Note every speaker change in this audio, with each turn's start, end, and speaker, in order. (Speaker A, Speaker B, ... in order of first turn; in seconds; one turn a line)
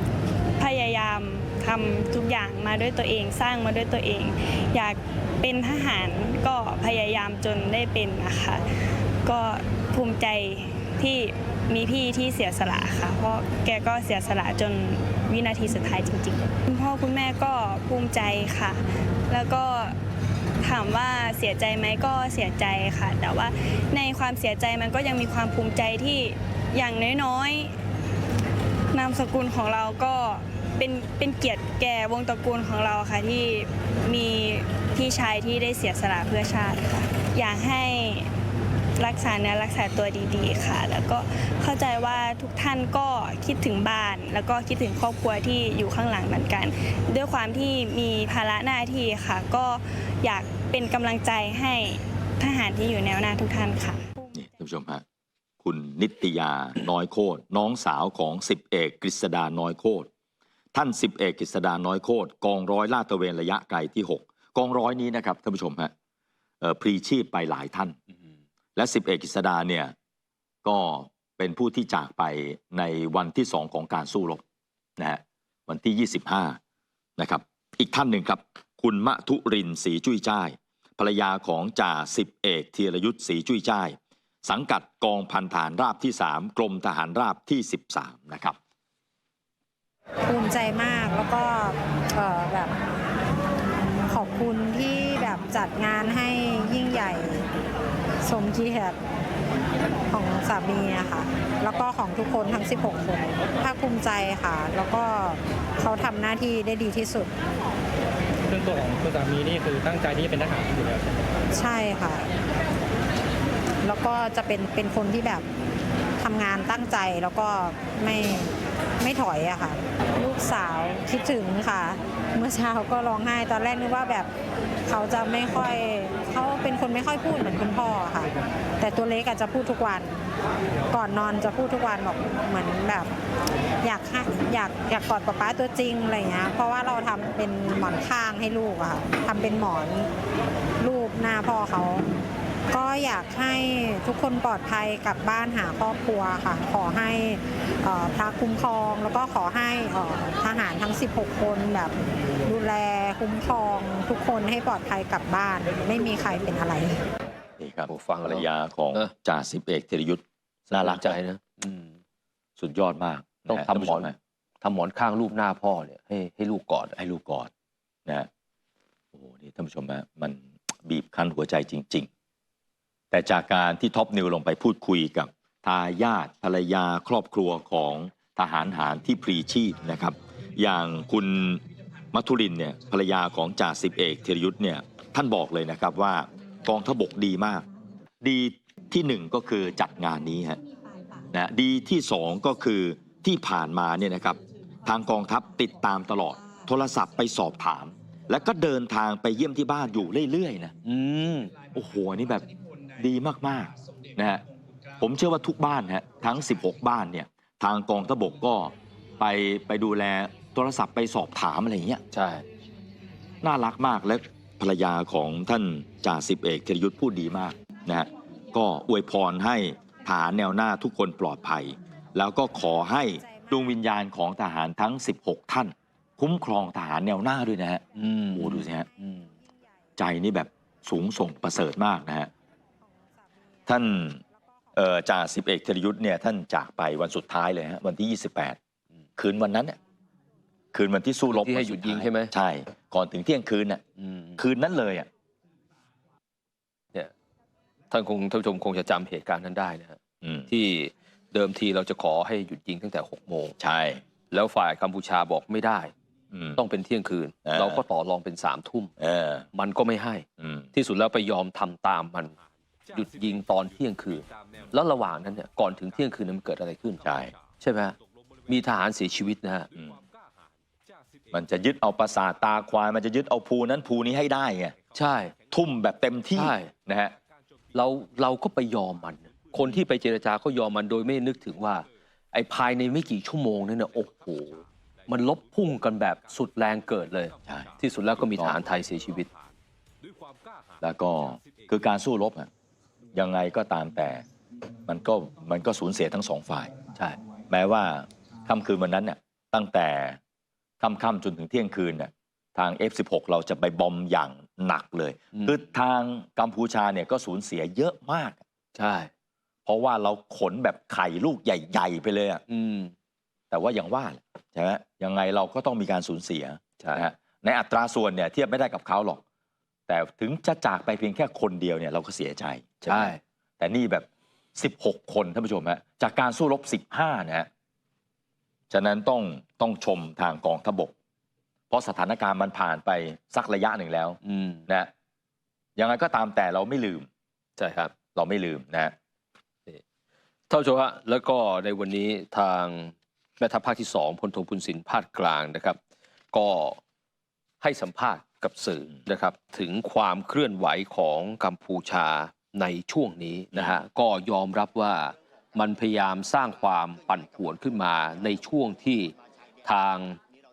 Speaker A: 0.6-8.7
Speaker A: 9.2-20.0
Speaker A: 20.6-27.8
Speaker A: 28.9-38.3
Speaker A: 39.0-54.2
Speaker B: 54.3-55.0
Speaker B: 55.6-60.1
Speaker B: 60.7-65.9
Speaker B: 66.6-68.0
Speaker B: 68.8-70.0
Speaker B: 70.6-74.4
Speaker B: 75.0-76.6
Speaker B: 77.2-88.6
Speaker C: 90.2-92.7
Speaker C: 94.1-97.5
Speaker C: 98.2-99.0
Speaker C: 100.1-107.3
Speaker D: 108.5-111.3
Speaker C: 111.5-112.3
Speaker C: 113.8-115.5
Speaker C: 116.2-124.3
Speaker C: 124.9-130.3
Speaker C: 130.9-133.1
Speaker C: 133.8-140.1
Speaker C: 140.8-142.1
Speaker C: 142.7-157.0
Speaker B: 157.6-161.2
Speaker E: 157.9-159.1
Speaker E: 160.7-161.9
Speaker B: 162.6-164.2
Speaker E: 163.5-164.1
Speaker E: 164.6-166.9
Speaker B: 167.0-167.5
Speaker B: 169.1-172.1
Speaker B: 173.1-187.7
Speaker B: 188.2-190.6
Speaker B: 191.3-200.7
Speaker E: 200.8-201.5
Speaker B: 201.7-204.4
Speaker B: 205.0-212.0
Speaker E: 212.1-212.4
Speaker B: 213.4-227.8
Speaker C: 223.2-223.6
Speaker E: 227.9-229.2
Speaker B: 228.3-228.9
Speaker B: 230.0-232.3
Speaker B: 233.7-234.2
Speaker B: 234.7-238.6
Speaker B: 239.2-239.8
Speaker B: 240.7-243.8
Speaker E: 241.3-242.3
Speaker E: 244.0-244.4
Speaker B: 244.4-245.1
Speaker E: 247.9-253.5
Speaker B: 250.2-250.5
Speaker B: 253.6-254.0
Speaker E: 254.3-255.9
Speaker B: 256.3-256.6
Speaker E: 256.6-258.9
Speaker B: 257.4-257.8
Speaker B: 259.0-259.5
Speaker E: 259.5-262.4
Speaker B: 260.4-260.7
Speaker E: 262.9-267.9
Speaker B: 267.0-267.3
Speaker E: 268.5-269.7
Speaker B: 269.7-270.0
Speaker B: 271.3-274.8
Speaker E: 274.9-275.3
Speaker B: 275.5-277.2
Speaker E: 276.4-276.7
Speaker E: 277.7-289.3
Speaker B: 287.5-288.6
Speaker B: 290.8-292.5
Speaker B: 293.1-294.2
Speaker B: 294.9-296.7
Speaker B: 297.5-300.2
Speaker B: 300.8-308.4
Speaker E: 308.8-309.1
Speaker B: 309.7-312.4
Speaker E: 312.5-312.9
Speaker B: 313.5-319.2
Speaker E: 316.8-317.1
Speaker B: 319.9-327.5
Speaker E: 322.9-323.2
Speaker B: 328.7-330.9
Speaker B: 331.7-334.9
Speaker E: 334.2-334.6
Speaker B: 335.8-337.1
Speaker E: 337.6-337.9
Speaker B: 338.1-339.0
Speaker E: 340.5-345.8
Speaker E: 346.3-346.8
Speaker E: 347.6-360.2
Speaker B: 353.5-353.8